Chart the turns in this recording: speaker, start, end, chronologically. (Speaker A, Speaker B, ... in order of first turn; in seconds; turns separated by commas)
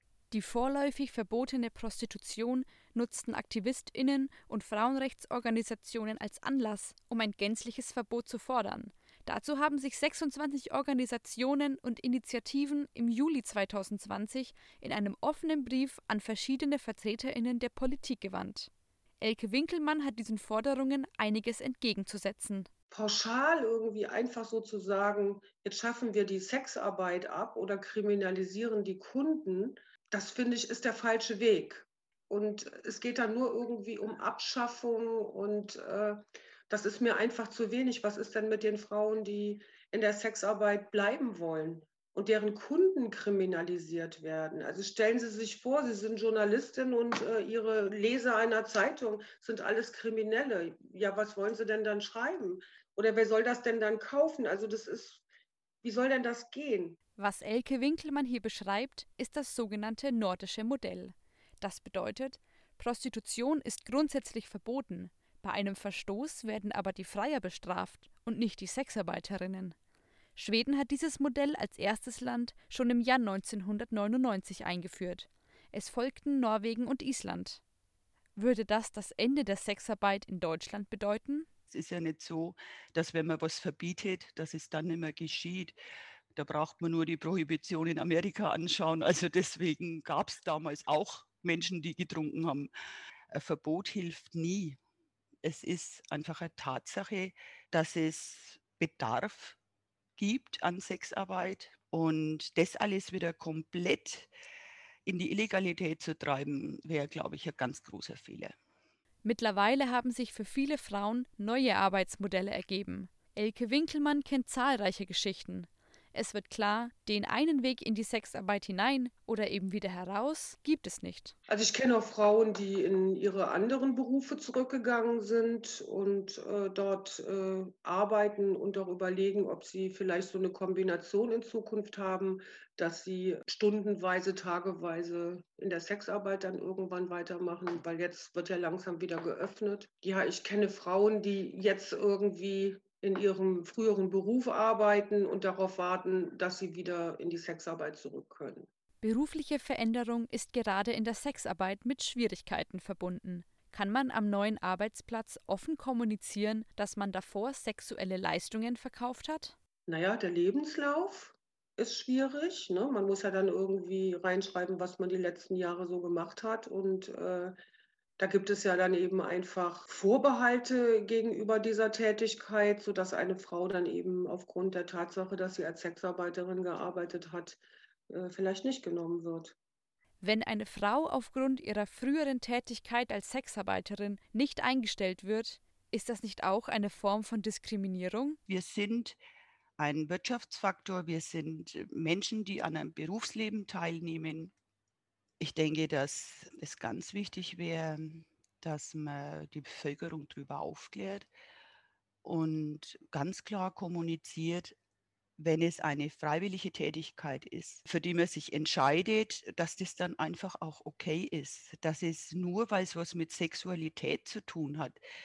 Speaker A: 0.3-22.7, Speaker B: 22.9-55.2, Speaker B: 55.8-57.0, Speaker A: 57.2-69.8, Speaker A: 70.3-77.6, Speaker A: 78.3-81.5, Speaker C: 81.7-85.7, Speaker C: 86.3-92.7, Speaker C: 93.3-94.8, Speaker C: 95.4-99.6, Speaker C: 100.2-104.3, Speaker C: 105.0-108.5, Speaker A: 109.2-121.3, Speaker B: 121.5-148.7, Speaker A: 149.0-159.5, Speaker B: 159.9-167.5, Speaker B: 168.2-179.5, Speaker A: 180.2-188.4, Speaker C: 188.5-189.2, Speaker C: 189.8-194.5, Speaker C: 195.4-201.3, Speaker C: 202.2-204.7, Speaker C: 205.4-215.0